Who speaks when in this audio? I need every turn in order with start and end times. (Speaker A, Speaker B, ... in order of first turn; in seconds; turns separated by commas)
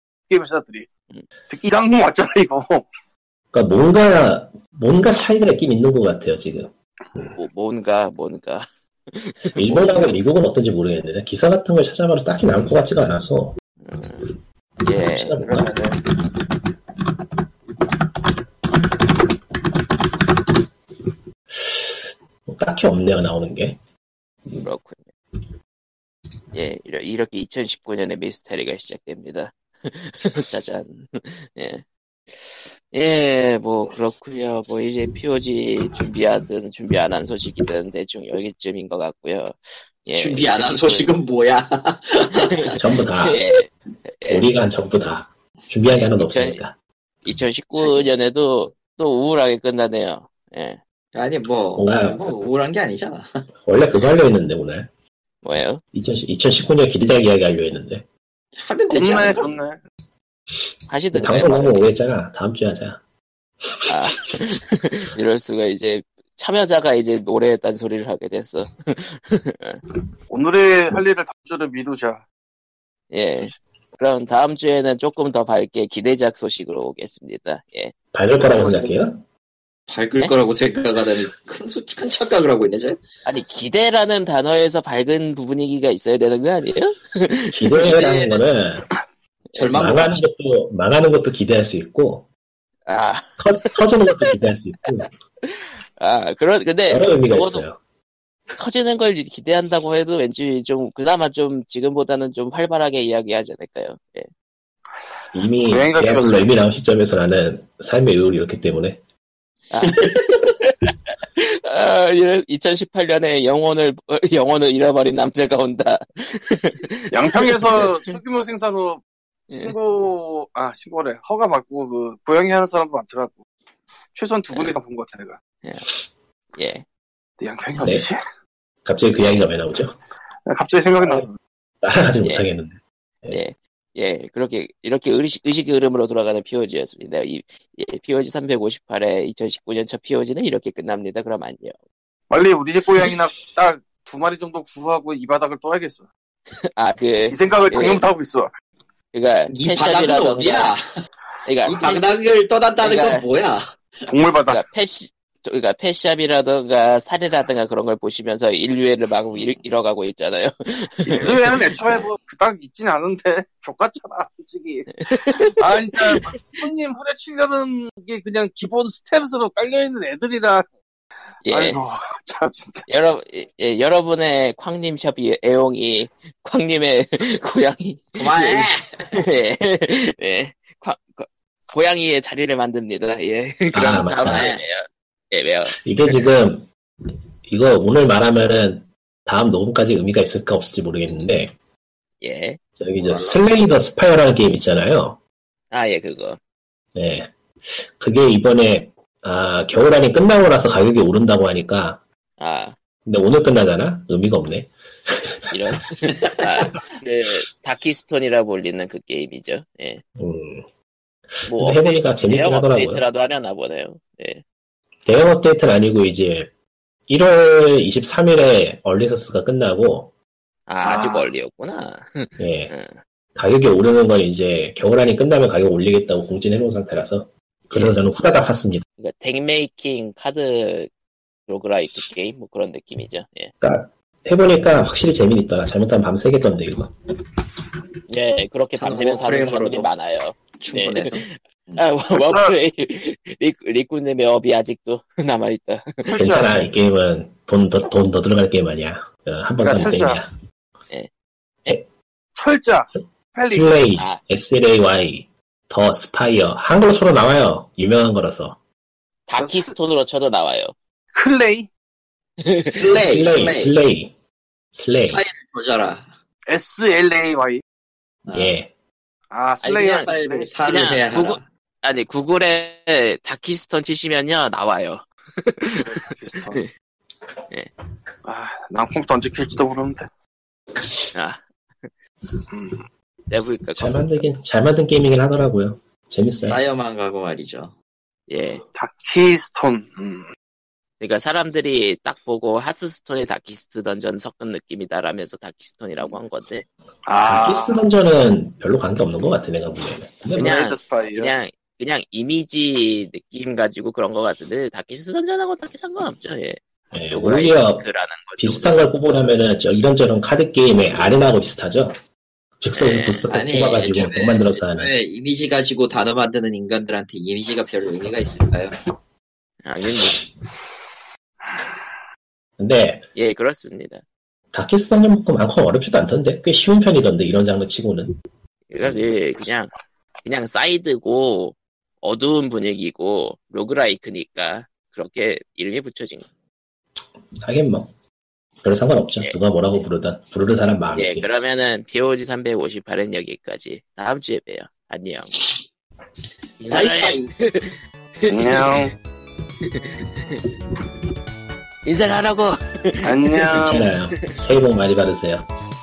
Speaker A: 0.3-0.9, Speaker A: 1.5-2.9, Speaker B: 3.5-7.4, Speaker C: 7.3-10.1, Speaker B: 9.6-13.5, Speaker C: 13.8-14.3, Speaker C: 14.8-16.0, Speaker B: 15.1-15.7, Speaker B: 21.5-23.8, Speaker C: 24.5-25.1, Speaker C: 26.5-41.1, Speaker D: 40.1-42.7, Speaker C: 42.4-44.5, Speaker B: 42.7-43.4, Speaker B: 44.3-46.7, Speaker C: 45.9-46.6, Speaker C: 47.2-50.8, Speaker D: 47.8-48.1, Speaker D: 51.1-53.4, Speaker B: 51.8-52.3, Speaker B: 53.6-54.9, Speaker C: 55.4-55.8, Speaker B: 55.9-58.0, Speaker D: 58.5-59.6, Speaker A: 58.9-59.8, Speaker C: 60.9-61.9, Speaker B: 61.1-63.0, Speaker C: 63.9-69.8, Speaker A: 70.3-72.2, Speaker C: 73.1-77.9, Speaker B: 78.1-79.2, Speaker D: 78.4-79.1, Speaker D: 79.9-83.0, Speaker C: 83.2-87.7, Speaker B: 87.5-88.9, Speaker D: 87.8-88.4, Speaker D: 89.5-90.2, Speaker B: 89.7-92.2, Speaker C: 92.9-93.7, Speaker B: 93.4-95.1, Speaker C: 95.4-97.6, Speaker B: 96.9-97.8, Speaker C: 98.6-104.3, Speaker B: 105.3-109.0, Speaker A: 105.7-106.5, Speaker C: 109.7-118.2, Speaker A: 117.1-123.4, Speaker A: 124.1-125.4, Speaker C: 126.5-126.8, Speaker A: 127.4-128.2, Speaker B: 127.8-128.1, Speaker B: 128.8-130.0, Speaker A: 130.4-131.3, Speaker B: 131.0-131.3, Speaker B: 131.8-133.4, Speaker C: 132.2-132.5, Speaker C: 133.3-141.8, Speaker A: 142.3-146.1, Speaker C: 146.8-148.0, Speaker A: 147.3-148.5, Speaker C: 149.1-150.7, Speaker D: 149.5-150.8, Speaker C: 151.4-152.0, Speaker D: 151.6-154.1, Speaker C: 152.8-153.2, Speaker A: 154.1-154.6, Speaker C: 154.5-162.0, Speaker D: 159.3-159.6, Speaker A: 161.1-170.7, Speaker C: 165.0-166.6, Speaker C: 171.4-171.8, Speaker A: 171.5-172.9, Speaker C: 172.9-185.8, Speaker D: 178.2-179.2, Speaker B: 183.7-184.5, Speaker D: 184.3-184.7, Speaker B: 185.7-186.7, Speaker B: 187.5-191.5, Speaker C: 192.2-192.6, Speaker B: 192.8-195.2, Speaker D: 193.0-193.4, Speaker C: 195.7-196.4, Speaker B: 196.9-202.0, Speaker C: 202.4-202.7, Speaker B: 203.1-205.7, Speaker C: 205.5-210.0, Speaker B: 210.2-210.7, Speaker B: 211.3-213.0, Speaker C: 211.4-214.4, Speaker B: 215.0-216.5, Speaker B: 217.1-220.1, Speaker C: 220.7-223.0, Speaker A: 220.8-221.3, Speaker B: 222.4-222.7, Speaker B: 223.3-228.8, Speaker C: 229.0-230.9, Speaker C: 231.5-233.5, Speaker B: 233.6-236.9, Speaker C: 238.1-246.2, Speaker D: 238.8-239.9, Speaker D: 240.6-241.9, Speaker A: 242.1-242.5, Speaker B: 246.1-250.3, Speaker A: 246.1-246.5, Speaker A: 249.6-250.2, Speaker A: 252.3-253.7, Speaker B: 253.5-258.6, Speaker C: 253.9-254.2, Speaker C: 259.3-260.7, Speaker A: 259.4-259.7, Speaker A: 261.1-261.7, Speaker C: 262.4-262.9, Speaker D: 262.6-263.7, Speaker B: 262.9-264.1, Speaker B: 264.8-265.2, Speaker D: 264.9-266.1, Speaker A: 266.5-267.6, Speaker D: 268.2-268.5, Speaker B: 268.3-268.7, Speaker A: 269.3-270.5, Speaker C: 269.6-276.7, Speaker D: 270.0-271.4, Speaker A: 275.8-276.6, Speaker A: 278.2-280.1, Speaker C: 281.1-281.9, Speaker A: 282.5-282.8, Speaker C: 283.3-284.3, Speaker B: 283.8-286.6, Speaker D: 286.4-287.7, Speaker C: 288.3-288.6, Speaker A: 288.7-290.3, Speaker C: 291.0-296.6, Speaker A: 297.0-297.8, Speaker B: 297.2-300.5, Speaker C: 300.3-306.6, Speaker A: 300.4-301.3, Speaker B: 306.9-307.8, Speaker C: 307.1-308.9, Speaker B: 308.4-311.9, Speaker B: 312.6-314.9, Speaker C: 312.7-313.3, Speaker D: 313.3-318.8, Speaker C: 319.6-320.1, Speaker B: 322.6-323.1, Speaker C: 323.1-324.0, Speaker B: 324.5-328.1, Speaker C: 328.7-329.7, Speaker C: 330.2-336.2, Speaker B: 337.4-337.9, Speaker B: 338.6-341.3, Speaker C: 340.9-345.3, Speaker C: 346.6-348.8, Speaker D: 346.7-347.3, Speaker A: 348.3-348.9, Speaker C: 349.6-350.4, Speaker C: 351.8-353.9, Speaker A: 353.0-353.8, Speaker B: 353.6-355.5